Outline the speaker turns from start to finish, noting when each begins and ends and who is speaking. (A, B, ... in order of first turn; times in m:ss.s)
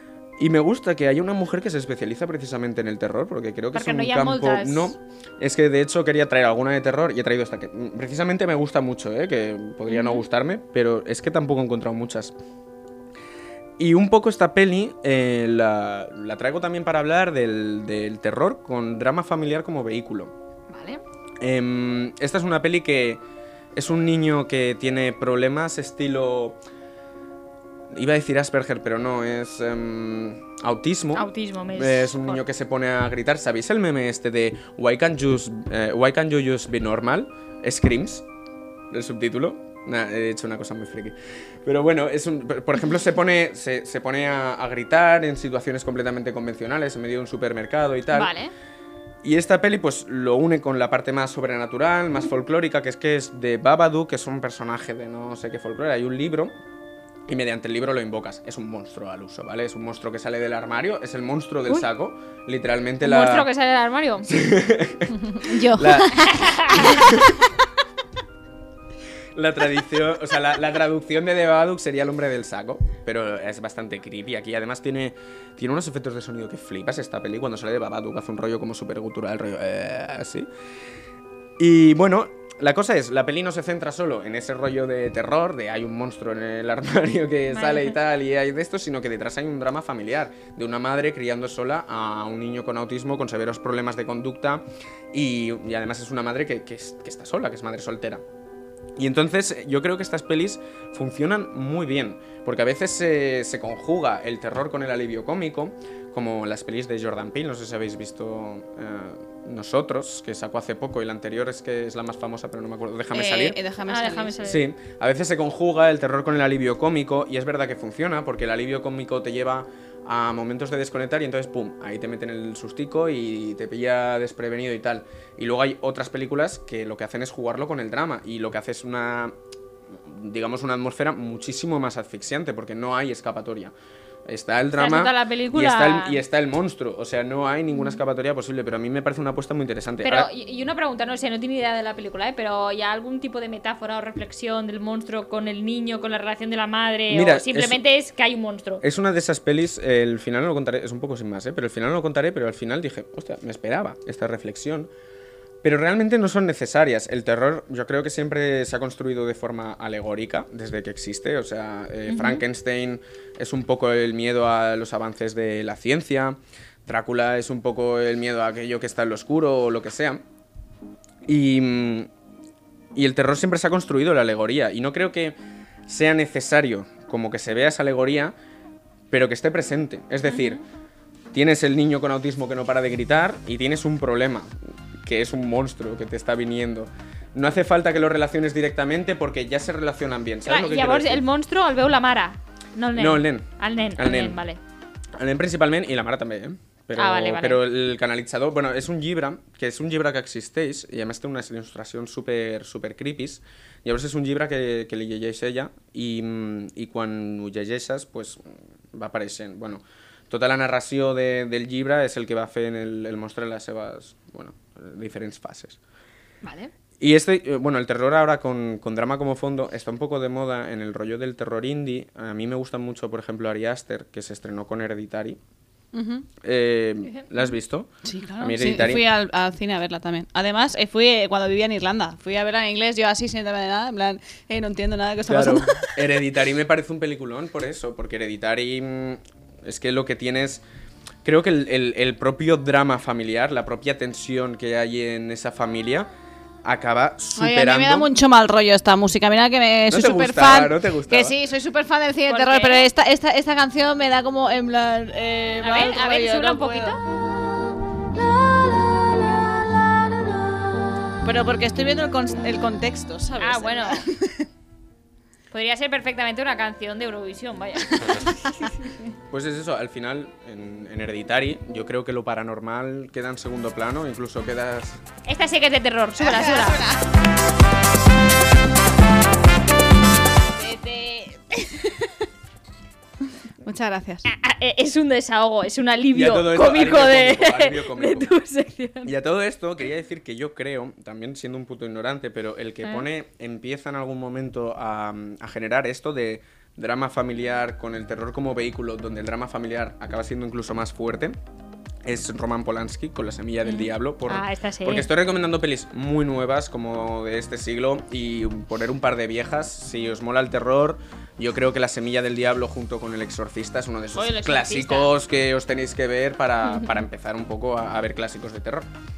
0:00.4-0:12.3 A
0:03.7-0:04.9 B
0:09.9-0:10.2 B
0:13.8-0:20.3 A
0:21.4-0:23.2 A
0:23.7-0:26.6 A
0:27.9-0:38.2 A
0:31.1-0:32.4 B
0:38.9-0:48.3 A
0:48.1-0:48.5 B
0:49.2-0:56.5 A
0:57.3-1:03.5 A
1:03.0-1:04.3 B
1:04.2-1:07.3 A
1:05.2-1:06.4 C
1:06.3-1:06.9 B
1:09.3-1:20.5 A
1:21.6-1:38.2 A
1:27.5-1:27.9 B
1:39.0-1:53.6 A
1:53.1-1:54.4 C
1:53.9-1:54.7 B
1:54.4-2:09.3 A
2:09.9-2:13.7 A
2:14.2-2:20.3 A
2:14.8-2:16.2 B
2:20.0-2:28.8 B
2:27.1-2:27.8 A
2:28.8-2:34.9 A
2:35.6-2:50.2 A
2:42.1-2:42.4 B
2:51.3-2:52.1 A
2:52.9-2:58.3 A
2:59.1-3:00.6 A
3:00.3-3:00.6 B
3:01.3-3:11.2 A
3:10.4-3:14.6 B
3:13.0-3:14.4 A
3:15.2-3:35.8 A
3:17.0-3:17.6 B
3:36.4-3:36.7 B
3:37.0-3:45.4 A
3:45.9-3:46.2 C
3:46.4-3:49.0 A
3:48.0-3:56.0 C
3:55.3-4:00.6 A
4:01.2-4:06.1 A
4:06.6-4:08.1 A
4:07.4-4:17.0 C
4:09.9-4:11.3 A
4:12.3-4:12.9 B
4:15.6-4:17.0 B
4:21.2-4:24.4 C
4:23.4-4:24.0 B
4:25.5-4:29.1 B
4:29.3-4:35.0 A
4:35.2-4:36.8 B
4:36.2-4:37.1 C
4:40.6-4:42.1 C
4:43.6-4:44.3 C
4:44.2-4:49.1 B
4:46.1-4:48.3 A
4:49.0-5:01.4 A
5:02.0-5:18.9 A
5:03.6-5:05.1 B
5:14.2-5:15.0 B